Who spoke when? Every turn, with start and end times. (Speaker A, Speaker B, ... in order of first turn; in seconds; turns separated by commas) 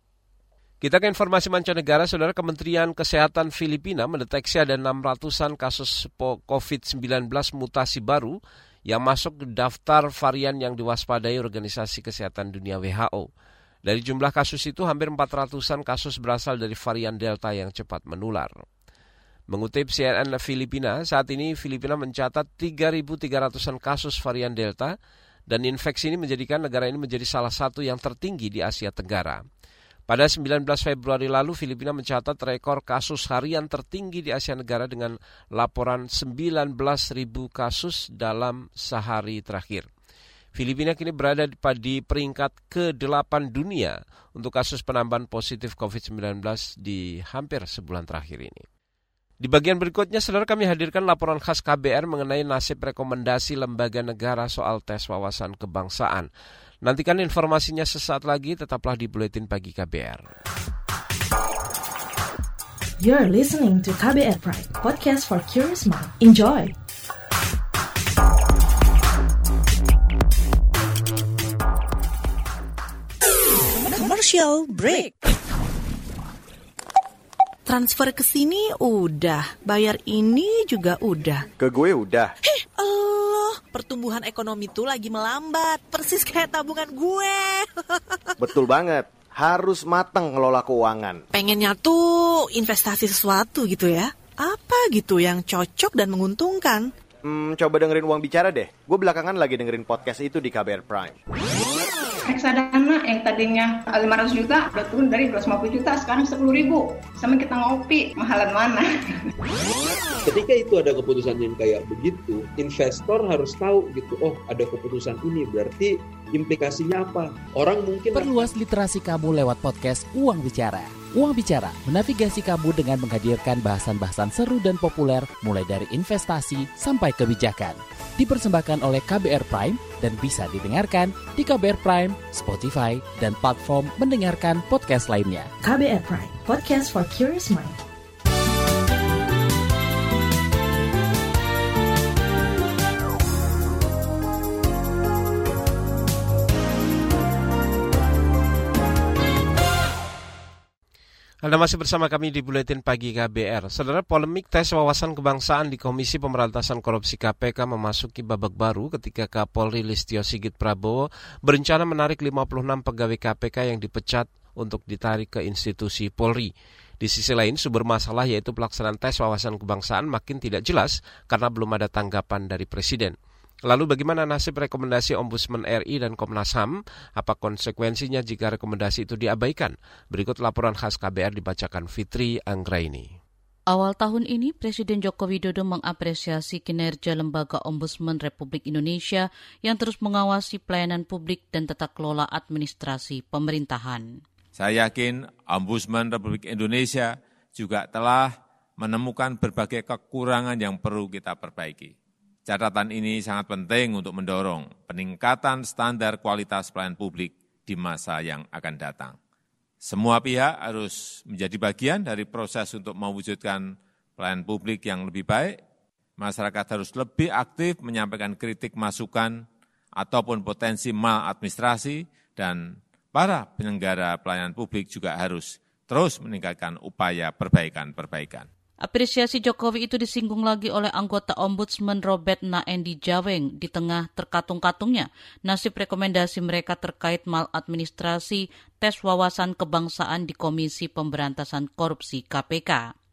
Speaker A: 0.8-13.3, Speaker A: 13.8-18.5, Speaker A: 19.5-24.9, Speaker A: 25.5-29.4, Speaker A: 30.1-39.9, Speaker A: 40.5-48.6, Speaker A: 49.4-56.3, Speaker A: 56.8-60.3, Speaker B: 63.0-66.8, Speaker C: 73.8-75.1, Speaker C: 77.8-81.0, Speaker D: 81.6-82.3, Speaker C: 82.6-87.6, Speaker D: 88.4-91.2, Speaker C: 91.4-96.8, Speaker D: 97.2-101.2, Speaker E: 102.3-108.9, Speaker F: 110.2-118.5, Speaker G: 118.1-135.5, Speaker B: 135.6-137.8, Speaker A: 151.4-183.1, Speaker H: 183.7-194.1, Speaker I: 194.6-201.9, Speaker I: 202.4-209.2, Speaker I: 209.9-215.6, Speaker I: 216.2-219.4, Speaker I: 220.0-222.6, Speaker I: 223.1-228.5, Speaker H: 228.8-242.8